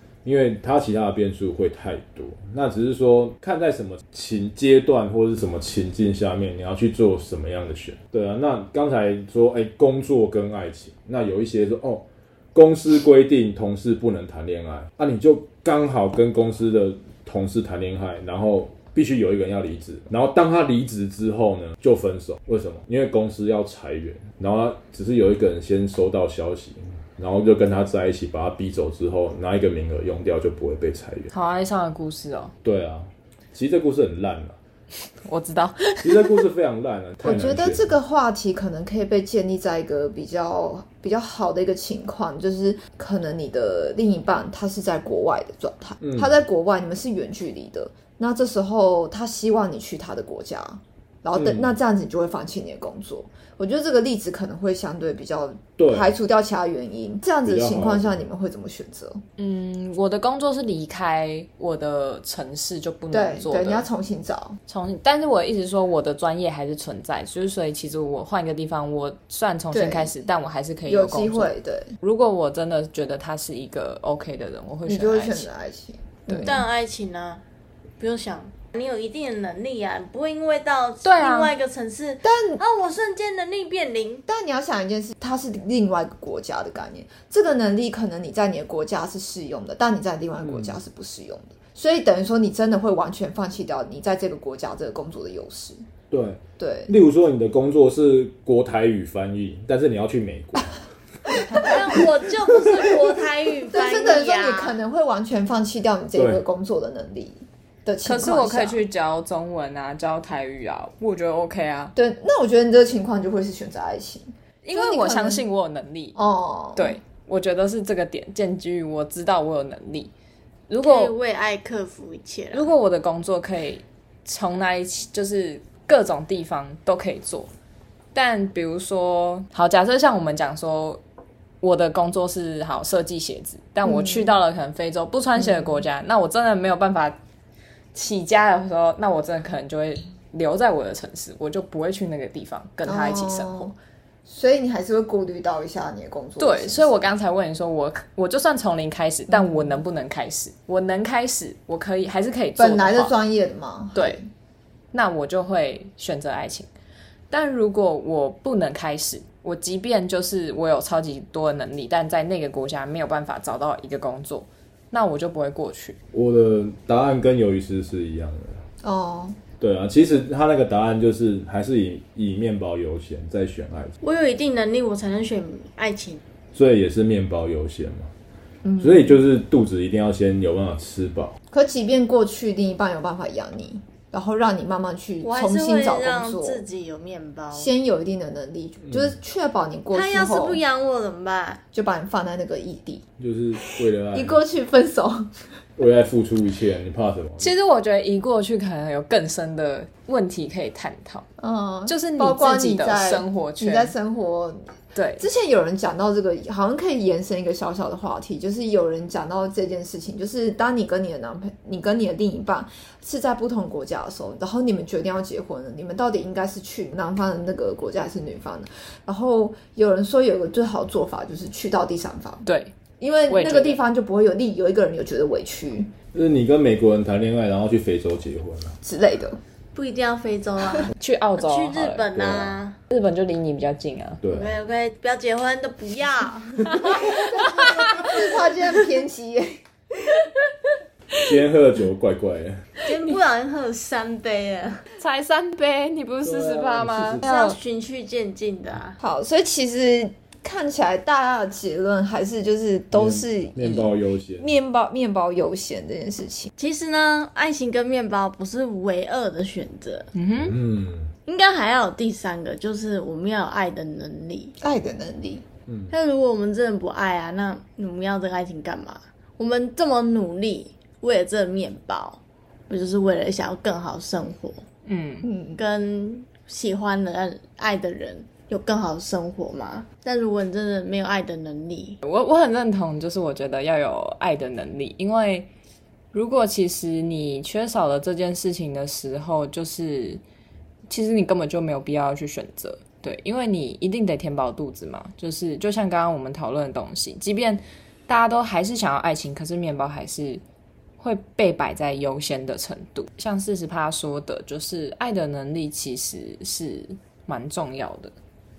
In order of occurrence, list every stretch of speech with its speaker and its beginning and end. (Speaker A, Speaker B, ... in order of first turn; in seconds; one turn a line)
Speaker A: 0.2-31.3
Speaker B: 31.3-32.5
Speaker A: 32.6-34.6
Speaker B: 35.2-36.4
Speaker A: 36.0-37.9
Speaker C: 37.2-59.2
Speaker A: 46.0-46.3
Speaker A: 51.4-51.7
Speaker A: 55.8-56.1
Speaker A: 57.4-58.2
Speaker B: 59.4-63.9
Speaker C: 63.1-64.6
Speaker B: 64.7-75.5
Speaker C: 69.7-70.1
Speaker C: 70.9-71.9
Speaker C: 74.8-76.6
Speaker D: 76.4-77.4
Speaker D: 78.0-84.2
Speaker B: 81.0-81.5
Speaker C: 82.2-82.6
Speaker C: 84.3-95.8
Speaker A: 90.4-90.7
Speaker A: 96.1-100.8
Speaker C: 96.6-96.9
Speaker C: 101.3-102.0
Speaker D: 101.5-104.8
Speaker C: 102.7-103.0
Speaker C: 103.7-108.8
Speaker A: 106.2-106.4
Speaker B: 108.0-111.9
Speaker C: 111.9-115.4
Speaker B: 114.6-116.2
Speaker C: 116.2-117.0
Speaker B: 116.7-120.1
Speaker B: 120.7-121.1
Speaker D: 120.8-122.7
Speaker B: 122.5-127.5
Speaker B: 128.1-131.0
Speaker B: 131.6-137.2
Speaker C: 133.8-134.3
Speaker C: 135.4-135.8
Speaker B: 137.9-143.7
Speaker C: 142.8-147.1
Speaker B: 146.4-153.1
Speaker C: 149.3-149.8
Speaker C: 152.6-154.3
Speaker B: 154.9-156.7
Speaker B: 157.3-166.0
Speaker A: 166.1-168.6
Speaker C: 168.8-169.4
Speaker A: 169.6-173.9
Speaker D: 174.0-176.2
Speaker A: 176.5-178.1
Speaker C: 178.6-179.2
Speaker A: 178.8-181.3
Speaker C: 181.5-186.6
Speaker D: 185.2-187.7
Speaker C: 187.5-190.6
Speaker D: 189.9-191.6
Speaker C: 191.7-193.0
Speaker A: 193.2-194.4
Speaker C: 193.6-195.3
Speaker A: 195.8-197.5
Speaker B: 197.4-201.3
Speaker C: 201.4-204.7
Speaker B: 201.9-203.9
Speaker B: 204.9-205.2
Speaker C: 205.2-222.4
Speaker B: 222.4-222.8
Speaker C: 223.0-225.9
Speaker B: 223.3-223.8
Speaker A: 226.1-228.8
Speaker C: 228.8-229.4
Speaker D: 229.7-232.8
Speaker B: 231.0-232.1
Speaker A: 232.1-232.6
Speaker B: 232.9-234.2
Speaker A: 234.2-234.5
Speaker D: 234.3-237.4
Speaker B: 236.7-238.1
Speaker C: 236.9-240.2
Speaker A: 241.2-242.7
Speaker D: 242.8-244.8
Speaker B: 245.0-247.2
Speaker A: 246.2-247.2
Speaker D: 247.2-249.0
Speaker C: 247.2-247.6
Speaker C: 249.0-256.5
Speaker A: 252.9-254.5
Speaker D: 256.6-260.1
Speaker B: 260.1-260.6
Speaker A: 260.4-261.1
Speaker D: 261.3-264.5
Speaker C: 264.6-265.4
Speaker D: 265.9-274.6
Speaker B: 274.9-275.3
Speaker C: 275.2-275.6
Speaker D: 275.6-282.0
Speaker B: 282.0-285.5
Speaker B: 286.1-290.2
Speaker B: 290.9-300.4
Speaker B: 301.0-308.1